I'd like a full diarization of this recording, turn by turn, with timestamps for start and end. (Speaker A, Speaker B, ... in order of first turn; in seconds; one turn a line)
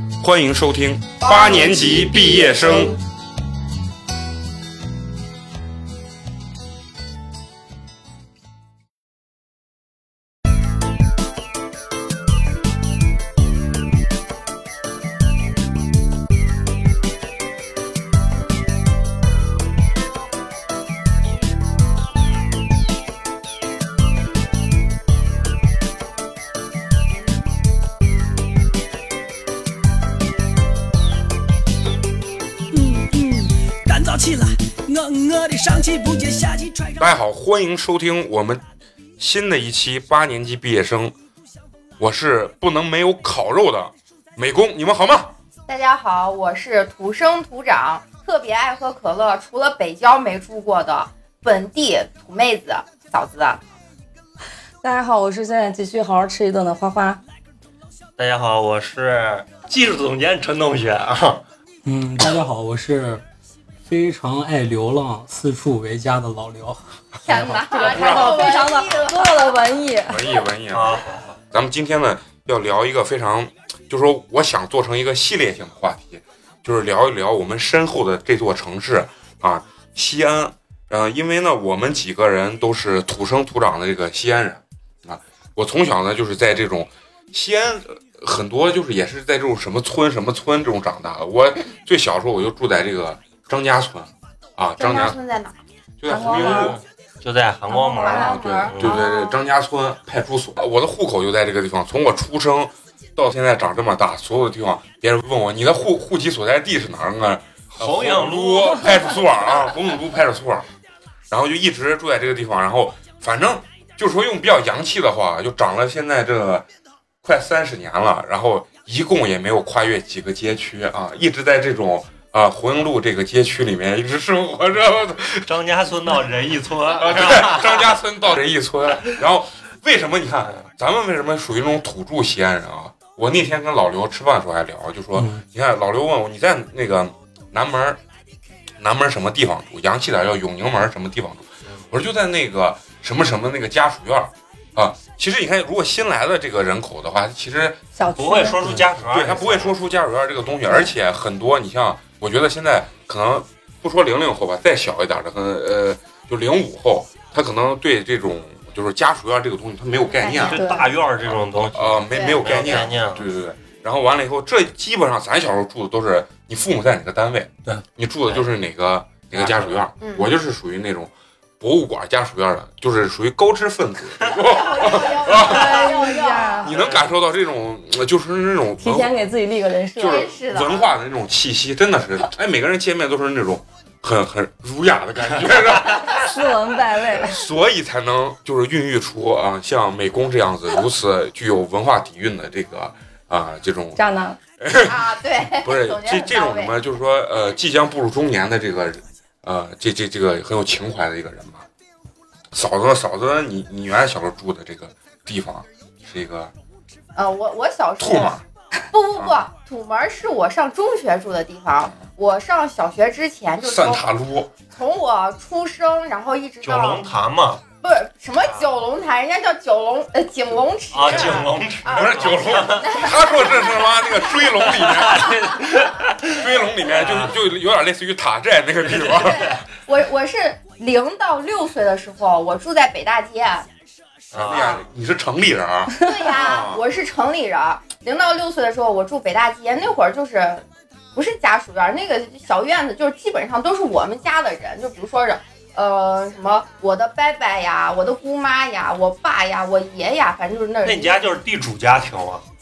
Speaker A: 0.2-3.0
Speaker B: 1.2-3.0
Speaker C: 32.7-37.1
Speaker A: 37.0-38.6
Speaker A: 39.2-41.1
Speaker A: 42.0-45.3
Speaker B: 45.7-53.6
Speaker D: 54.8-57.2
Speaker E: 58.2-61.4
Speaker F: 61.8-63.2
Speaker F: 63.9-67.7
Speaker B: 67.3-69.6
Speaker D: 67.7-70.4
Speaker A: 67.8-68.6
Speaker A: 70.1-95.2
Speaker E: 70.7-71.4
Speaker B: 94.8-95.6
Speaker A: 96.0-96.8
Speaker D: 96.1-96.8
Speaker E: 96.3-99.0
Speaker D: 97.7-98.3
Speaker B: 98.0-99.4
Speaker A: 98.2-110.7
Speaker E: 107.7-109.2
Speaker A: 111.3-116.6
Speaker A: 117.2-125.5
Speaker E: 125.5-127.9
Speaker A: 127.0-138.0
Speaker A: 138.8-147.8
Speaker D: 147.9-148.7
Speaker E: 148.2-149.8
Speaker A: 149.1-160.6
Speaker B: 160.1-160.7
Speaker E: 160.4-163.3
Speaker D: 160.5-160.9
Speaker A: 161.2-175.9
Speaker B: 162.1-162.9
Speaker E: 169.3-169.8
Speaker B: 170.0-170.3
Speaker B: 174.2-176.8
Speaker D: 175.2-176.7
Speaker A: 176.6-179.2
Speaker E: 176.7-177.1
Speaker D: 178.8-180.3
Speaker A: 179.9-186.5
Speaker B: 180.0-180.9
Speaker D: 186.1-187.4
Speaker A: 187.1-194.0
Speaker D: 193.9-194.4
Speaker A: 194.6-201.7
Speaker B: 194.8-196.7
Speaker A: 202.5-206.5
Speaker B: 207.2-208.4
Speaker A: 208.0-208.4
Speaker B: 208.9-214.0
Speaker A: 209.1-209.4
Speaker A: 213.6-214.5
Speaker B: 214.7-217.0
Speaker E: 216.6-217.6
Speaker B: 217.8-224.1
Speaker E: 218.4-218.7
Speaker E: 220.9-223.3
Speaker A: 221.1-225.6
Speaker E: 224.5-227.4
Speaker A: 226.3-229.6
Speaker E: 229.1-229.3
Speaker B: 229.2-233.7
Speaker E: 234.3-234.8
Speaker A: 234.3-236.8
Speaker B: 234.4-234.8
Speaker B: 236.0-251.3
Speaker E: 250.8-252.4